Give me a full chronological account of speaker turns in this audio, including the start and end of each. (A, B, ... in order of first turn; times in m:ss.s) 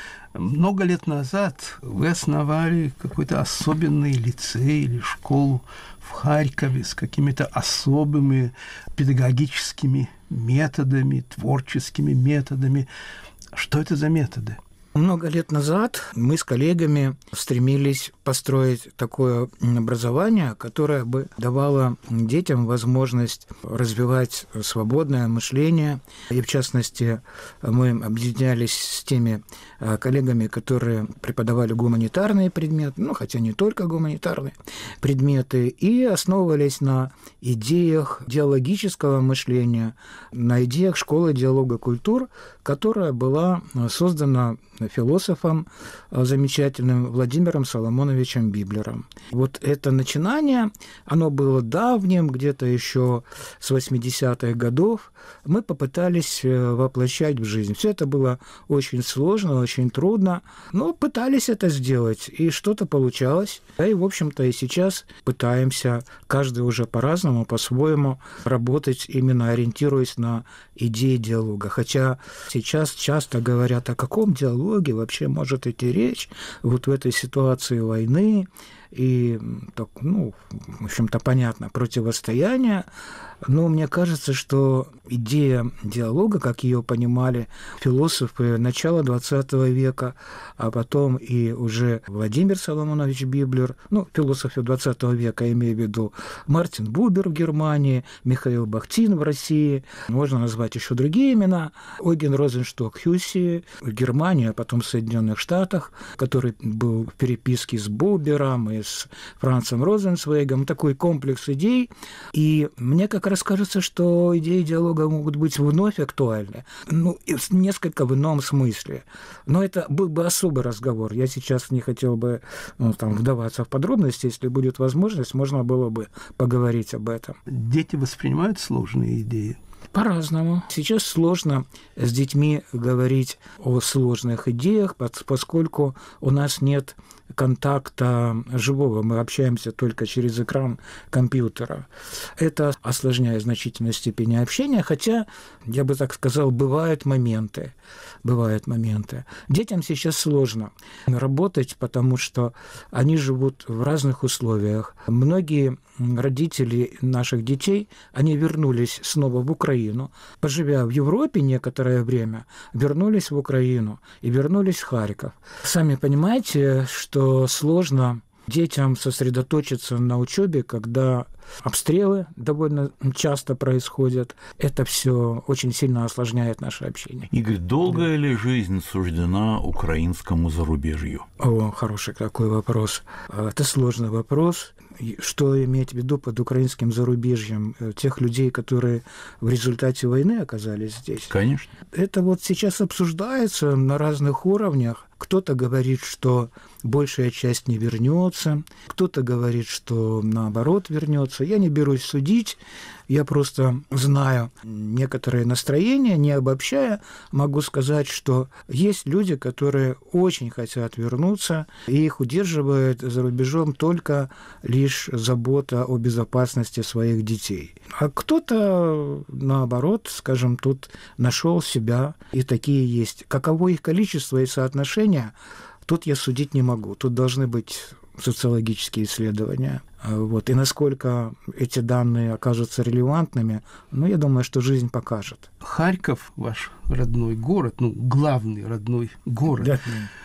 0:00.3-0:12.9 A
0:13.5-0:14.6 A
0:14.9-1:22.8 B
1:23.4-2:07.4 B
2:07.5-2:09.6 A
2:09.9-2:57.3 B
2:57.3-3:01.2 C
3:01.4-3:11.3 B
3:11.3-3:11.7 C
3:11.8-3:45.3 B
3:45.8-3:55.5 B
3:55.6-3:59.8 A
3:59.6-4:00.1 B